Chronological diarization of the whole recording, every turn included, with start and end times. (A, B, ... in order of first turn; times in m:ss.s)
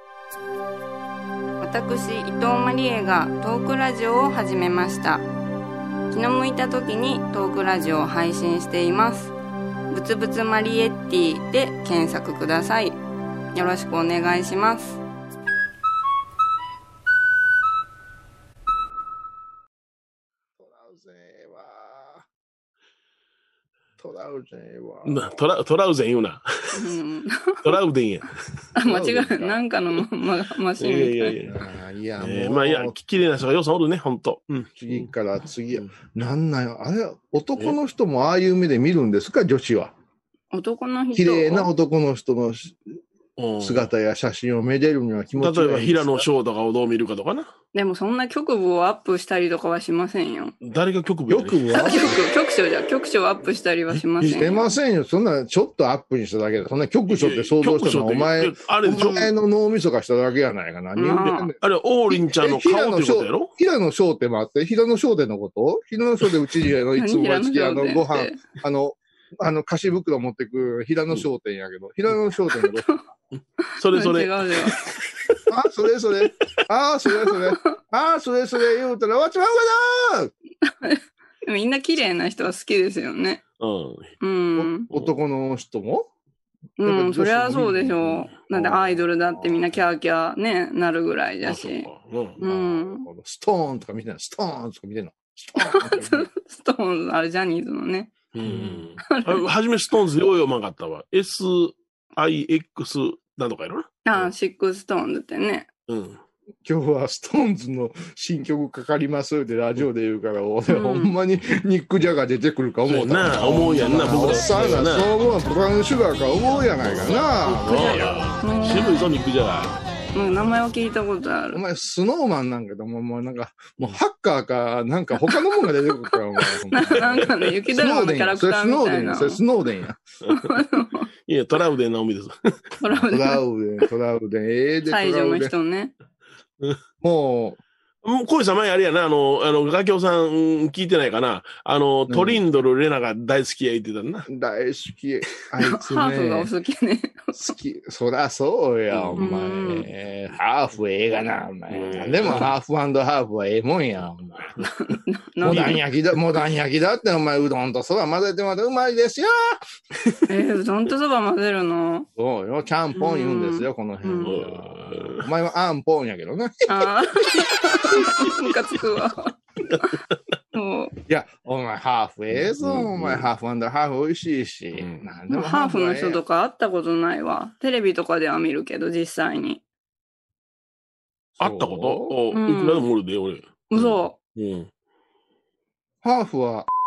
0:01.6-0:05.2 A
0:06.1-0:09.3 A
0:09.9-0:13.0 A
0:13.6-0:15.0 A
0:20.6-0:22.2 B
0:24.0-0:25.3 B
0:25.0-0:26.9 C
0:26.8-0:27.6 A
0:27.6-0:28.3 C
0:28.8-0:31.3 A
0:28.8-0:29.7 B
0:30.8-0:31.6 C
0:31.5-0:32.9 B
0:32.2-0:35.1 C
0:34.8-0:39.9 B
0:40.5-0:41.7 A
0:41.1-0:42.8 B
0:43.4-0:43.9 C
0:43.6-0:46.2 B
0:45.4-0:47.5 C
0:47.7-0:50.6 A
0:50.6-0:52.0 C
0:51.3-0:52.2 B
0:51.7-0:54.7 A
0:53.9-0:54.4 C
0:54.4-1:01.6 B
0:57.1-0:59.3 C
1:01.0-1:01.5 A
1:01.3-1:03.5 C
1:02.1-1:13.0 B
1:07.0-1:08.4 A
1:13.8-1:15.4 C
1:13.9-1:14.7 A
1:15.5-1:20.3 B
1:20.6-1:23.4 A
1:23.6-1:24.1 C
1:24.2-1:24.9 A
1:24.6-1:26.1 B
1:26.8-1:31.9 A
1:26.8-1:29.8 B
1:31.4-1:32.4 C
1:32.4-1:36.3 B
1:32.4-1:33.1 A
1:35.6-1:38.1 A
1:38.3-1:44.2 C
1:38.4-1:38.8 B
1:39.1-1:39.4 A
1:44.0-1:45.7 A
1:45.9-1:46.2 C
1:46.6-1:58.2 B
1:50.7-1:51.1 A
1:52.9-1:55.1 C
1:57.0-1:59.8 C
1:58.4-1:59.0 A
2:00.1-2:01.6 A
2:01.5-2:10.0 B
2:06.7-2:09.4 A
2:06.9-2:07.3 C
2:10.3-2:11.1 A
2:11.2-2:12.6 C
2:12.8-2:13.4 A
2:13.0-2:15.5 B
2:14.9-2:15.9 A
2:17.0-2:17.6 B
2:18.0-2:24.3 C
2:22.1-2:22.4 B
2:24.3-2:26.5 B
2:25.6-2:27.6 A
2:27.3-2:34.6 B
2:28.9-2:29.2 C
2:29.2-2:29.9 A
2:31.7-2:32.5 C
2:34.6-2:35.8 A
2:35.4-2:39.6 B
2:35.4-2:35.8 C
2:40.3-2:42.1 A
2:42.2-2:46.9 B
2:43.0-2:44.3 A
2:44.2-2:45.2 C
2:46.7-2:49.9 A
2:50.5-2:50.9 A
2:51.1-2:56.2 B
2:52.4-2:53.3 C
2:54.7-2:55.0 C
2:55.3-2:59.6 A
3:01.4-3:04.7 C
3:01.4-3:02.2 B
3:02.3-3:02.9 A
3:03.7-3:04.2 A
3:06.0-3:06.7 B